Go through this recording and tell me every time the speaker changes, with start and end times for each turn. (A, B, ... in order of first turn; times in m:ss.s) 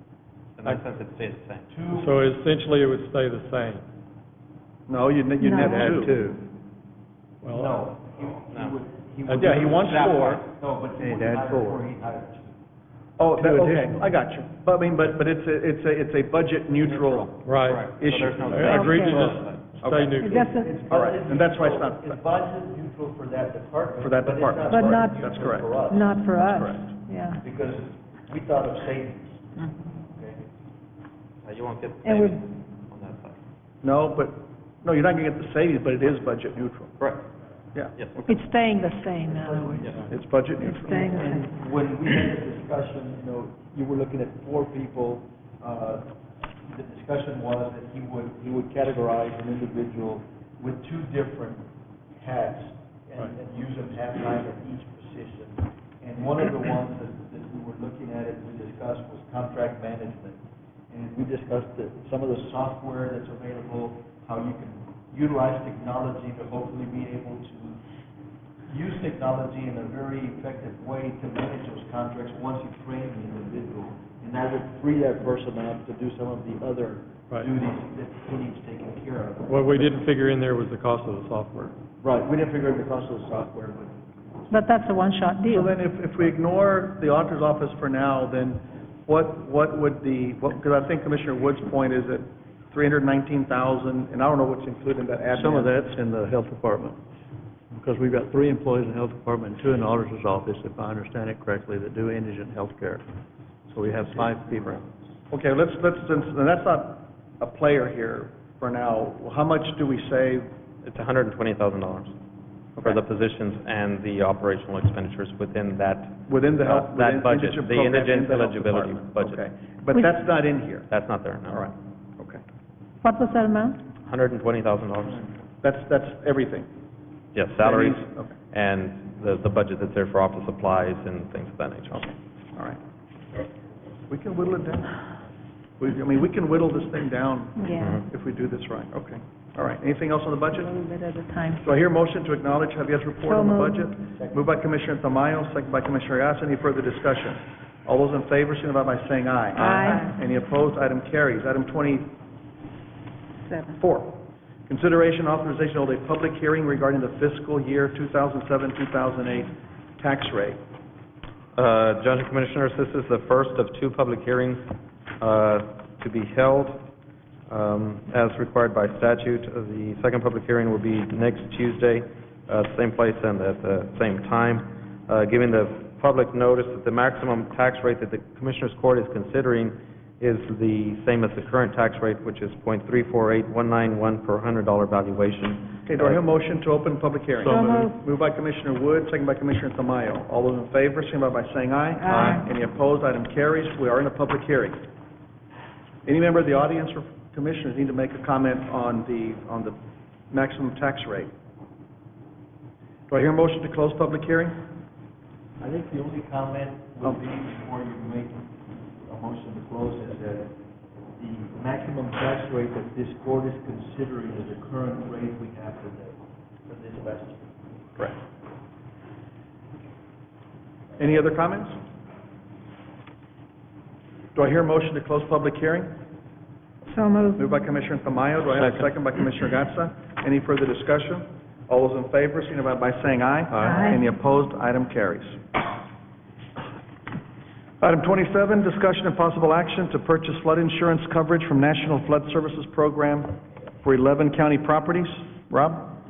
0:00.6-0:01.7 A
0:01.7-0:02.2 B
0:01.9-0:03.8 C
0:04.9-0:06.2 D
0:05.4-0:05.8 E
0:05.6-0:06.4 F
0:07.4-0:07.7 C
0:07.5-0:12.6 B
0:08.5-0:08.8 A
0:09.3-0:09.9 C
0:09.4-0:10.4 D
0:11.0-0:11.8 F
0:13.2-0:17.4 D
0:13.3-0:14.0 F
0:16.8-0:20.1 A
0:17.4-0:17.9 C
0:18.0-0:18.9 D
0:18.5-0:20.5 C
0:18.7-0:19.3 E
0:19.8-0:20.1 D
0:20.2-0:20.8 E
0:20.2-0:26.3 B
0:20.8-0:22.2 D
0:24.0-0:25.8 D
0:24.7-0:25.2 E
0:25.9-0:27.4 E
0:26.4-0:26.8 D
0:27.4-0:29.5 B
0:30.0-0:30.5 B
0:31.4-0:33.4 A
0:32.0-0:32.4 E
0:33.8-0:36.9 D
0:37.0-0:37.3 A
0:37.7-0:38.4 D
0:37.9-0:38.4 A
0:38.3-0:40.0 E
0:39.3-0:40.0 B
0:39.9-0:41.1 D
0:40.6-0:41.5 E
0:40.9-0:46.1 B
0:46.7-1:00.4 B
1:00.9-1:07.8 B
1:08.7-1:19.9 B
1:19.5-1:21.8 C
1:22.0-1:24.0 B
1:24.5-1:25.7 E
1:25.5-1:35.9 D
1:35.3-1:37.0 F
1:37.7-1:43.0 F
1:43.7-1:44.9 F
1:45.3-1:50.5 D
1:50.8-1:52.1 A
1:52.8-1:59.4 A
1:56.3-2:00.9 D
2:00.9-2:01.7 A
2:01.5-2:02.4 D
2:03.0-2:03.8 E
2:04.0-2:05.3 A
2:05.6-2:06.7 D
2:07.4-2:12.1 A
2:07.6-2:08.3 D
2:11.9-2:12.8 D
2:14.1-2:14.9 D
2:15.8-2:20.7 D
2:17.6-2:18.0 E
2:20.5-2:21.7 E
2:21.6-2:32.1 D
2:23.2-2:23.9 E
2:24.1-2:24.4 B
2:29.6-2:30.2 E
2:33.4-2:33.8 E
2:33.8-2:40.6 D
2:41.6-2:44.7 A
2:45.2-2:46.8 A
2:47.5-3:06.2 A
3:05.9-3:14.8 D
3:07.5-3:08.0 E
3:12.0-3:12.4 E
3:16.1-3:19.8 D
3:20.3-3:21.3 D
3:23.1-3:24.6 D
3:25.6-3:30.5 B
3:31.2-3:37.6 B
3:41.0-3:41.8 D
3:44.4-3:45.9 D
3:46.9-3:47.4 E
3:47.4-3:55.4 D
3:53.5-3:53.9 F
3:53.6-3:54.0 E
3:57.8-4:05.9 D